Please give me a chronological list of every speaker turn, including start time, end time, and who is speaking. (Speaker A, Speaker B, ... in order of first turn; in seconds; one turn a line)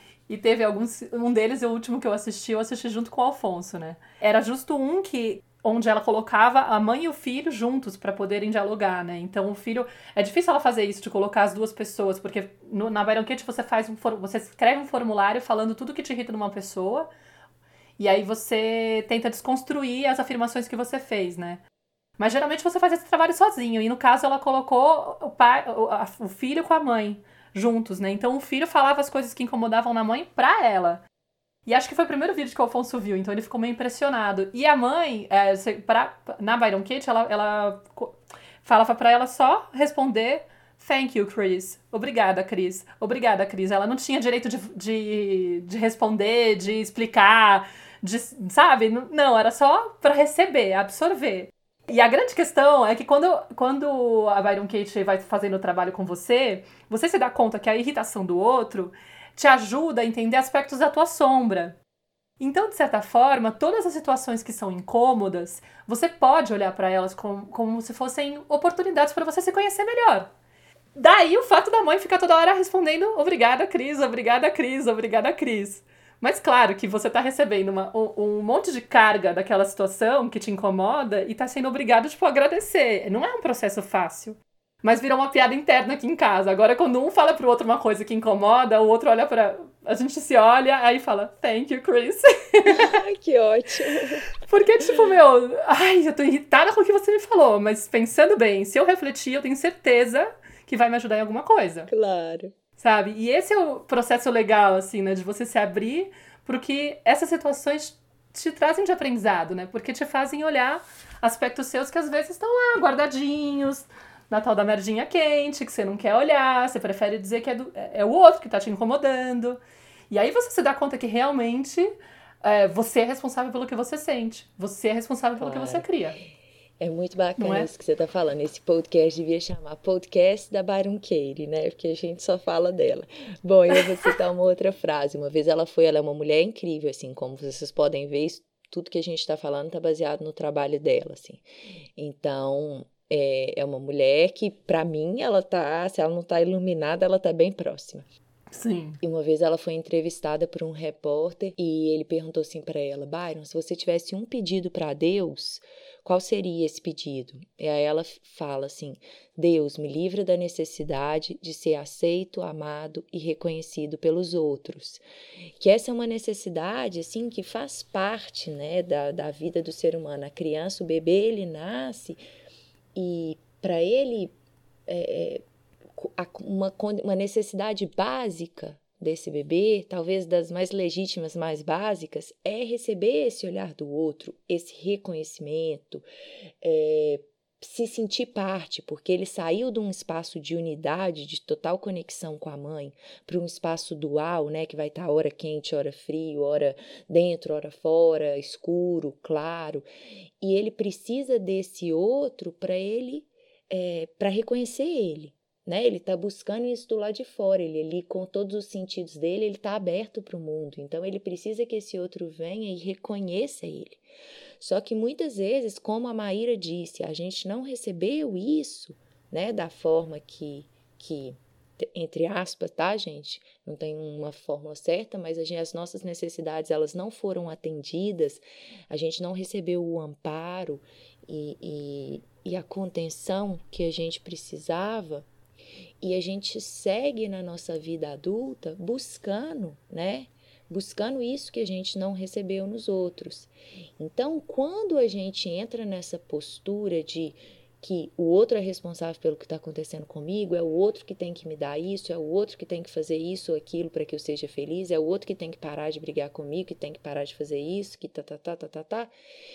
Speaker A: 0.3-17.1
Speaker A: 18.0-21.6
Speaker A: 22.2-31.0
Speaker A: 31.6-61.8
Speaker A: 62.4-70.3
Speaker A: 71.0-93.0
Speaker B: 92.7-94.3
Speaker A: 94.4-101.9
Speaker B: 101.9-102.5
Speaker A: 102.8-119.6
Speaker A: 120.1-121.9
Speaker A: 122.4-126.2
Speaker B: 125.4-125.9
Speaker B: 126.8-141.4
Speaker A: 127.4-127.7
Speaker B: 141.9-148.1
Speaker A: 148.5-149.0
Speaker B: 149.0-165.0
Speaker B: 165.6-172.2
Speaker B: 172.9-174.3
Speaker B: 174.9-186.1
Speaker B: 186.6-199.9
Speaker B: 200.4-214.0
Speaker B: 214.6-235.3
Speaker B: 236.0-259.1